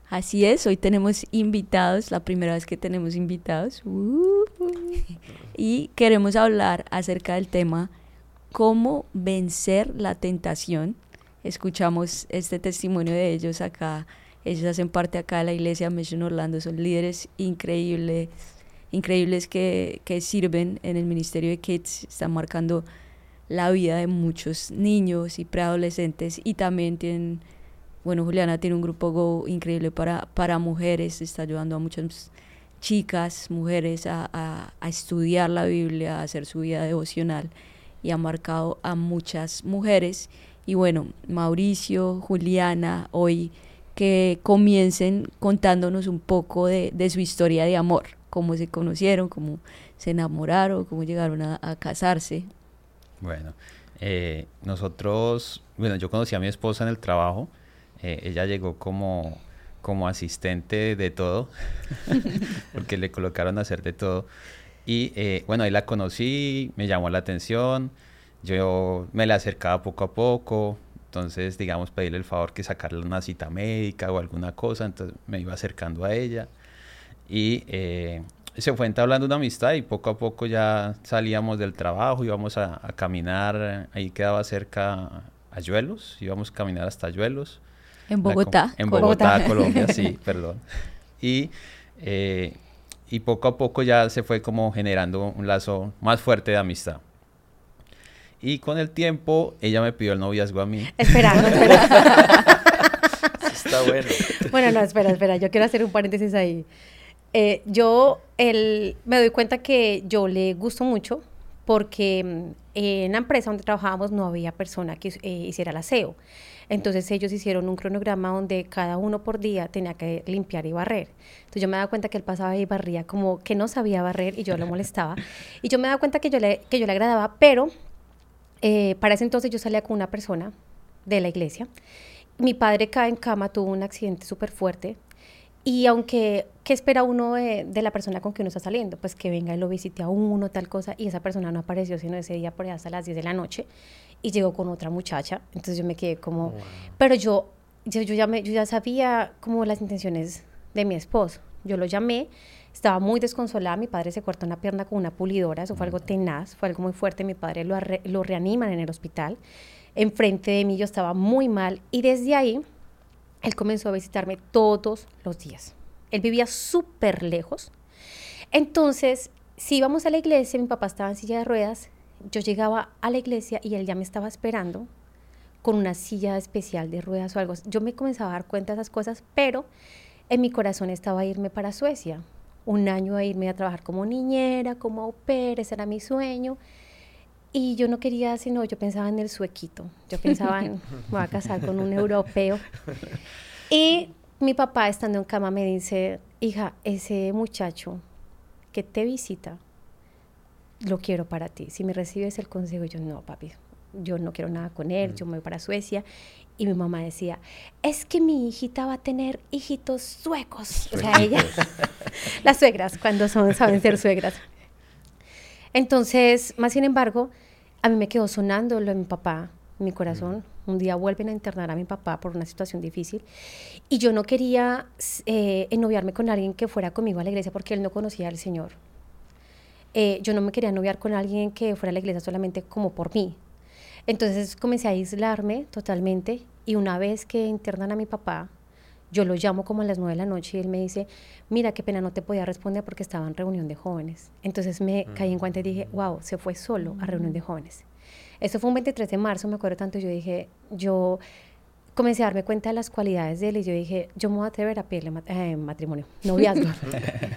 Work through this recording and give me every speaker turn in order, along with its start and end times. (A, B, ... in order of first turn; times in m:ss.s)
0:00.1-0:07.9 A
0:08.5-0:18.3 A
0:18.9-0:22.8 A
0:23.5-0:27.4 A
0:28.0-0:37.5 A
0:38.0-0:52.5 A
0:53.2-1:04.3 B
1:04.8-1:16.5 B
1:17.3-1:27.6 B
1:28.1-1:30.1 A
1:28.2-1:37.0 B
1:28.9-1:30.0 C
1:38.4-1:41.7 B
1:41.0-1:42.4 C
1:41.5-1:42.5 D
1:43.4-1:44.5 D
1:44.2-1:46.7 C
1:47.3-1:56.2 C
1:56.7-2:07.7 C
2:08.6-2:10.5 C
2:11.1-2:11.7 C
2:12.4-2:15.0 C
2:15.6-2:23.7 C
2:24.2-2:39.4 C
2:26.4-2:27.0 D
2:40.0-2:42.6 C
2:43.4-2:47.7 C
2:48.5-2:54.9 C
2:55.6-2:59.7 C
3:00.3-3:06.6 C
3:07.5-3:12.7 C
3:13.7-3:18.0 C
3:18.7-3:19.6 C
3:20.8-3:26.0 C
3:26.6-3:34.4 C
3:30.9-3:31.5 B
3:35.7-3:37.3 C
3:37.8-3:43.2 C
3:43.9-3:48.8 C
3:49.9-3:53.4 C
3:54.1-3:58.5 C
3:59.1-4:07.8 C
4:05.1-4:05.8 D
4:06.8-4:07.4 A
4:08.4-4:11.2 C
4:12.0-4:17.0 C